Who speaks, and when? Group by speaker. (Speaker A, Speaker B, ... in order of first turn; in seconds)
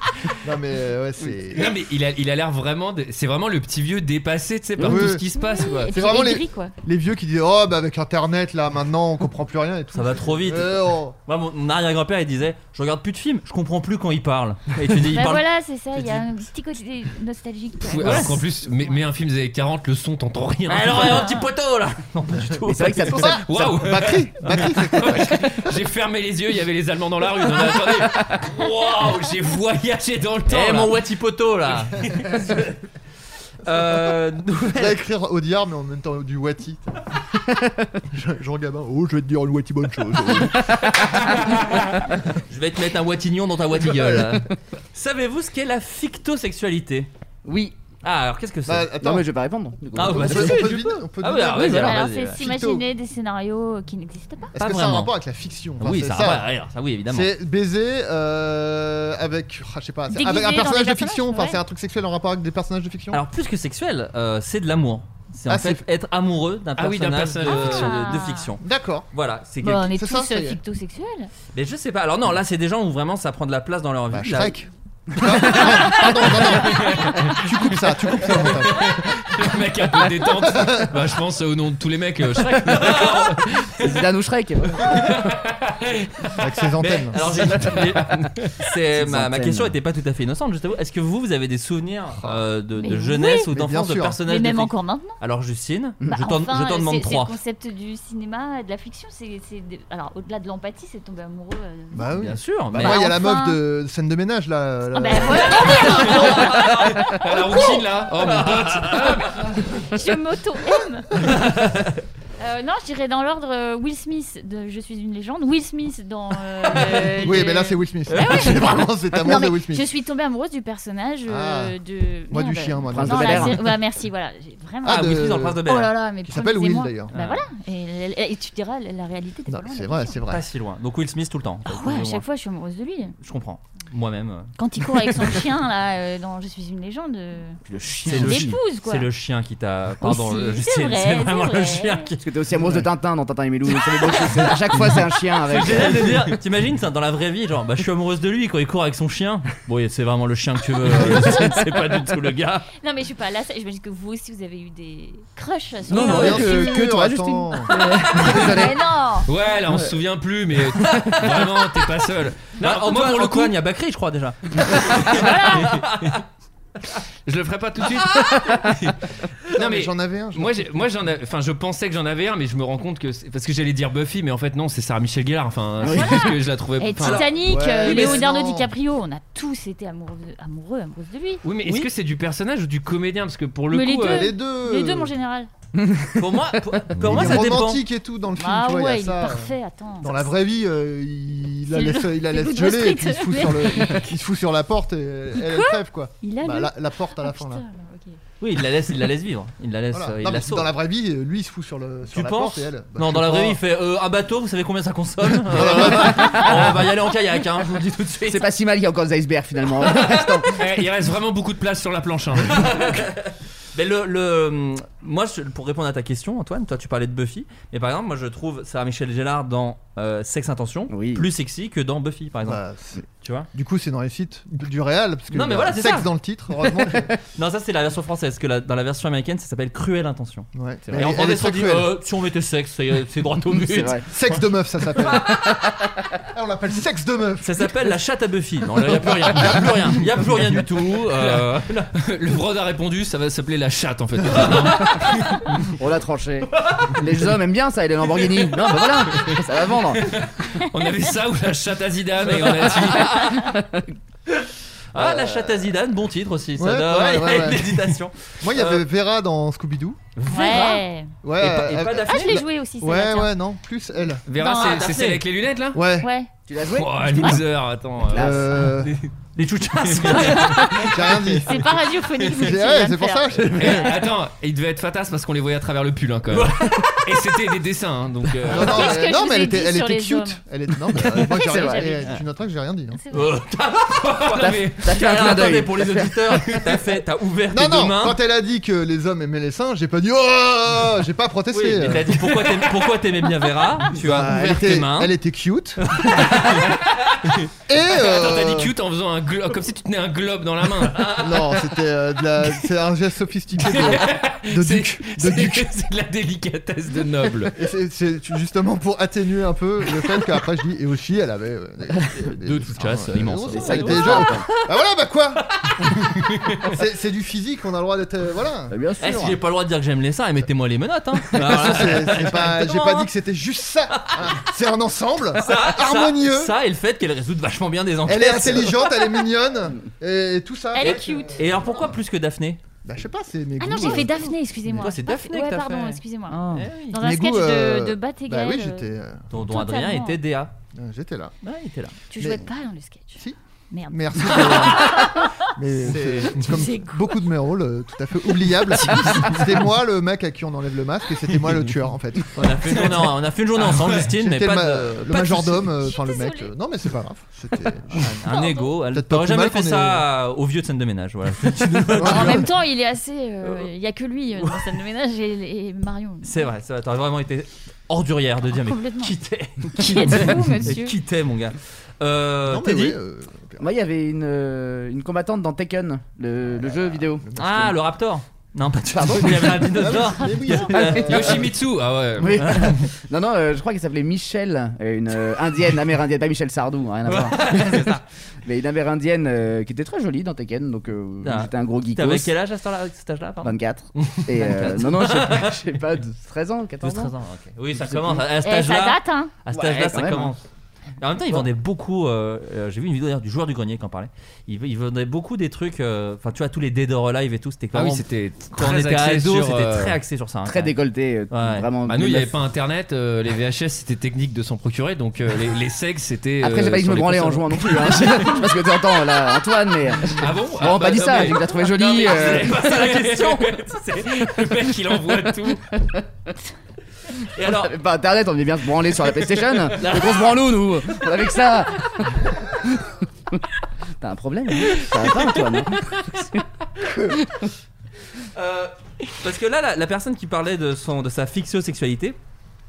Speaker A: 0.4-1.7, 4.8-5.3, 5.9-11.2, 23.1-25.7, 34.7-37.0, 38.1-40.9, 48.7-49.3, 50.0-52.9, 54.5-56.5, 57.1-63.2, 65.5-65.9, 68.6-69.1, 69.7-70.6, 74.1-79.1, 80.5-80.9, 86.4-87.6, 92.2-92.5, 93.4-94.2, 101.9-106.2, 117.2-119.9, 121.3-121.8, 122.3-123.7, 124.8-125.6, 126.2-127.1, 129.5-130.4, 155.9-157.7, 169.6-170.7, 177.4-178.7, 184.0-185.1, 187.0-197.6, 199.9-203.6, 205.4-206.7, 222.4-227.1, 230.5-231.9, 234.1-235.5, 236.3-237.7, 254.9-255.7, 256.6-260.0, 261.2-264.2, 265.7-266.1, 268.1-268.9, 270.9-273.9, 278.4-283.0, 287.5-292.2, 293.9-296.0, 297.7-298.7, 301.2-305.7, 307.6-315.5, 316.6-318.8, 321.3-326.6, 328.1-331.7, 332.9-335.0, 336.9-339.2, 340.8-341.3, 342.2-342.5, 343.9-352.5, 354.1-358.2, 358.9-360.1, 361.9-362.5, 372.5-373.6, 376.6-377.8, 379.0-381.5
Speaker B: 1.5-5.9, 17.8-21.4, 23.4-31.0, 32.0-32.4, 66.8-68.1, 76.5-77.5, 78.2-84.0, 84.8-86.5, 87.4-88.7, 107.1-109.4, 159.3-163.6, 165.0-166.1, 167.3-169.0, 169.5-177.4, 181.4-184.3, 210.0-213.1, 241.2-241.4, 242.0-245.6, 249.1-249.4, 250.0-253.5, 264.3-265.8, 266.7-269.1, 269.8-271.0, 273.5-279.0, 283.9-285.3, 296.3-296.7, 297.2-301.5, 303.6-307.6, 312.5-313.8, 316.2-316.6, 348.9-349.2, 353.7-354.0, 381.0-382.9, 407.7-410.0, 411.9-418.5, 420.1-425.6
Speaker C: 4.8-5.1, 22.7-23.8, 40.6-41.1, 47.5-47.8, 49.0-50.9, 75.2-75.8, 82.8-83.2, 83.8-85.3, 88.9-89.8, 122.9-123.7, 137.7-138.6, 142.2-146.3, 150.9-151.6, 155.9-158.8, 168.3-168.6, 175.8-176.4, 185.8-186.6, 205.9-206.4, 208.3-210.7, 220.9-221.3, 233.5-234.1, 235.1-235.8, 245.8-250.2, 266.5-267.5, 268.0-268.6, 281.4-282.1, 284.4-286.2, 313.5-314.5, 318.7-319.4, 373.6-377.3, 380.8-381.4, 382.2-392.3, 393.4-397.1, 397.8-398.2, 399.5-400.4, 410.5-412.3, 416.4-422.6, 427.4-433.4, 434.0-436.4, 437.0-437.5
Speaker D: 5.3-6.7, 15.1-19.0, 51.7-54.5, 60.1-61.6, 67.5-68.5, 69.6-71.3, 92.8-93.5, 94.3-95.2, 96.1-102.2, 102.7-103.6, 104.9-107.2, 109.9-111.2, 112.4-130.2, 131.7-133.2, 134.6-139.1, 140.0-142.1, 152.8-156.8, 158.2-159.3, 165.1-165.7, 175.8-181.4, 183.7-185.5, 188.4-190.3, 191.7-194.1, 195.4-198.2, 260.3-261.1, 262.1-263.3, 264.4-265.0, 266.0-266.3, 270.4-273.9, 278.6-280.4, 281.1-282.2, 282.9-283.4, 330.7-331.4, 333.6-340.2, 342.1-345.4, 345.9-347.3, 355.8-356.5, 358.3-358.7, 362.0-366.5, 368.5-369.1, 369.8-371.0, 398.4-399.4
Speaker E: 9.9-15.4, 16.0-16.2, 18.0-18.4, 20.7-23.4, 28.7-29.1, 30.5-32.7, 33.6-35.0, 42.5-47.1, 48.0-48.9, 50.0-52.4, 54.6-55.1, 55.8-57.3, 63.1-69.9, 71.5-74.6, 86.8-97.4, 102.2-103.1, 105.6-107.6, 108.1-109.5, 111.2-111.9, 124.8-125.9, 127.1-127.5, 130.3-132.2, 133.2-134.6, 138.1-142.2, 145.5-152.7, 160.8-161.3, 162.6-166.2, 177.8-178.2, 186.2-187.8, 198.4-200.7, 202.1-208.5, 212.5-222.6, 223.2-223.5, 225.3-226.1, 227.3-234.1, 237.4-241.9, 244.4-244.8, 246.6-246.9, 252.3-253.5, 254.3-258.9, 260.2-260.8, 261.4-262.4, 264.5-265.2, 269.4-270.8, 276.3-277.1, 283.1-288.2, 291.5-295.1, 295.9-296.7, 312.5-314.3, 319.0-323.1, 323.9-324.5, 325.4-329.1, 330.8-332.6, 334.8-336.8, 339.3-340.5, 341.4-342.0, 345.9-346.4, 352.3-355.7, 357.9-362.5, 364.4-364.7, 366.2-373.0, 377.4-381.4, 382.4-382.7, 387.1-388.0, 391.2-395.5, 396.8-400.4, 401.0-410.8, 411.3-411.7, 421.5-424.3, 427.3-427.8, 429.8-430.4, 438.3-442.2